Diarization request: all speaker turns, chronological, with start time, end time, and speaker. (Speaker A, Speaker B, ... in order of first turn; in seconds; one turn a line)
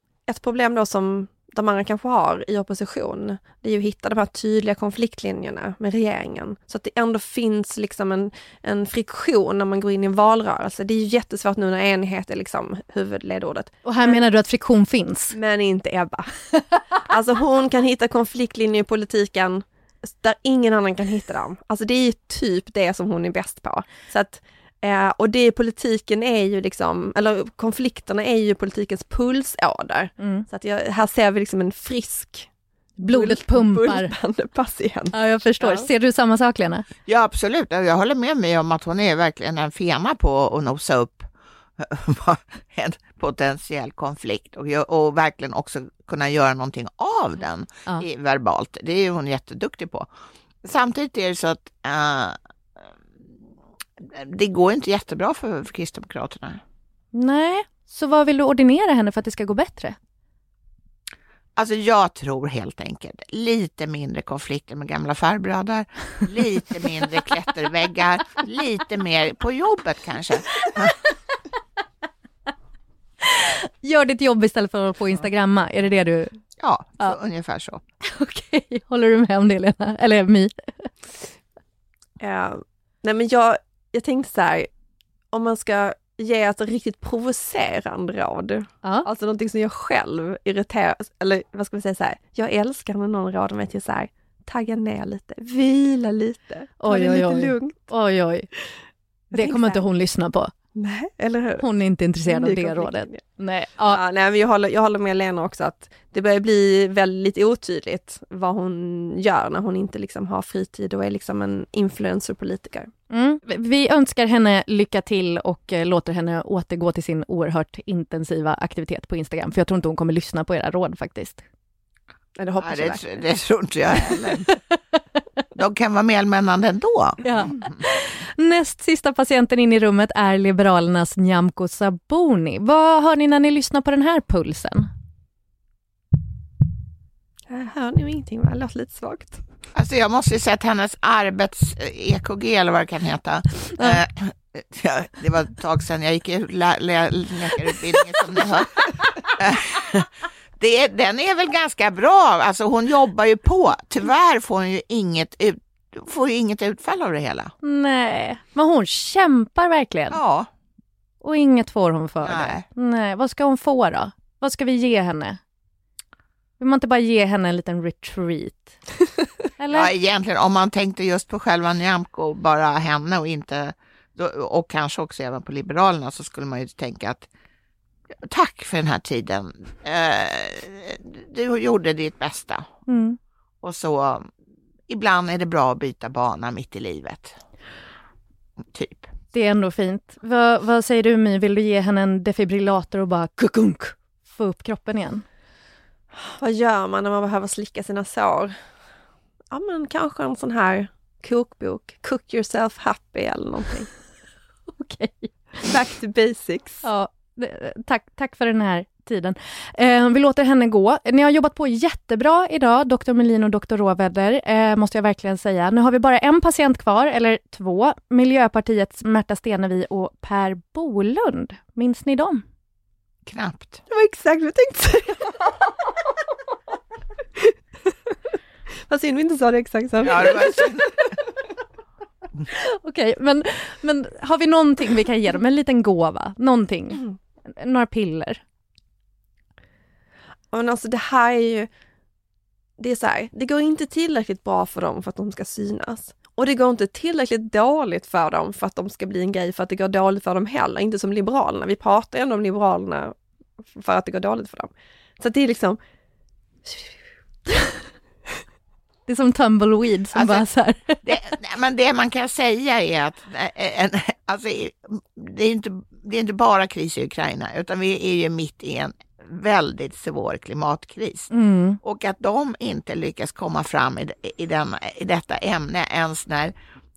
Speaker A: 0.3-14.2
Speaker B: 13.8-15.3
Speaker A: 15.3-16.3
Speaker A: 16.9-32.5
Speaker B: 30.2-30.4
Speaker B: 33.0-34.1
Speaker A: 33.1-35.9
Speaker B: 35.1-36.9
Speaker C: 37.1-41.3
Speaker C: 41.8-50.1
Speaker C: 50.6-52.9
Speaker C: 54.0-56.6
Speaker B: 57.1-60.0
Speaker C: 61.6-71.0
Speaker B: 73.2-76.3
Speaker C: 76.6-77.8
Speaker B: 78.0-80.9
Speaker A: 82.2-84.7
Speaker A: 85.3-97.8
Speaker B: 96.8-98.5
Speaker A: 99.3-99.8
Speaker B: 99.3-100.5
Speaker A: 100.8-101.7
Speaker B: 101.6-104.0
Speaker A: 102.3-103.2
Speaker A: 103.9-112.9
Speaker B: 113.1-121.5
Speaker A: 122.4-123.2
Speaker C: 122.6-124.5
Speaker C: 125.5-127.6
Speaker B: 127.2-134.9
Speaker A: 137.5-139.4
Speaker C: 139.7-157.5
Speaker B: 157.6-160.2
Speaker C: 160.1-160.5
Speaker B: 161.2-165.4
Speaker C: 162.2-162.7
Speaker B: 166.6-168.8
Speaker B: 169.6-169.9
Speaker C: 169.7-177.3
Speaker C: 178.2-182.7
Speaker B: 182.9-183.2
Speaker C: 183.6-184.3
Speaker C: 184.9-187.4
Speaker C: 188.6-189.1
Speaker B: 189.3-195.2
Speaker A: 196.1-198.6
Speaker A: 199.5-203.9
Speaker B: 204.8-205.7
Speaker A: 205.6-206.8
Speaker B: 206.8-222.4
Speaker C: 223.3-223.8
Speaker A: 223.9-225.5
Speaker A: 228.9-230.7
Speaker C: 230.0-231.1
Speaker B: 232.5-238.4
Speaker A: 240.5-241.7
Speaker A: 242.8-253.1
Speaker A: 253.7-255.8
Speaker B: 259.1-261.0
Speaker C: 260.1-260.5
Speaker C: 261.0-271.3
Speaker B: 271.3-271.8
Speaker C: 271.8-276.5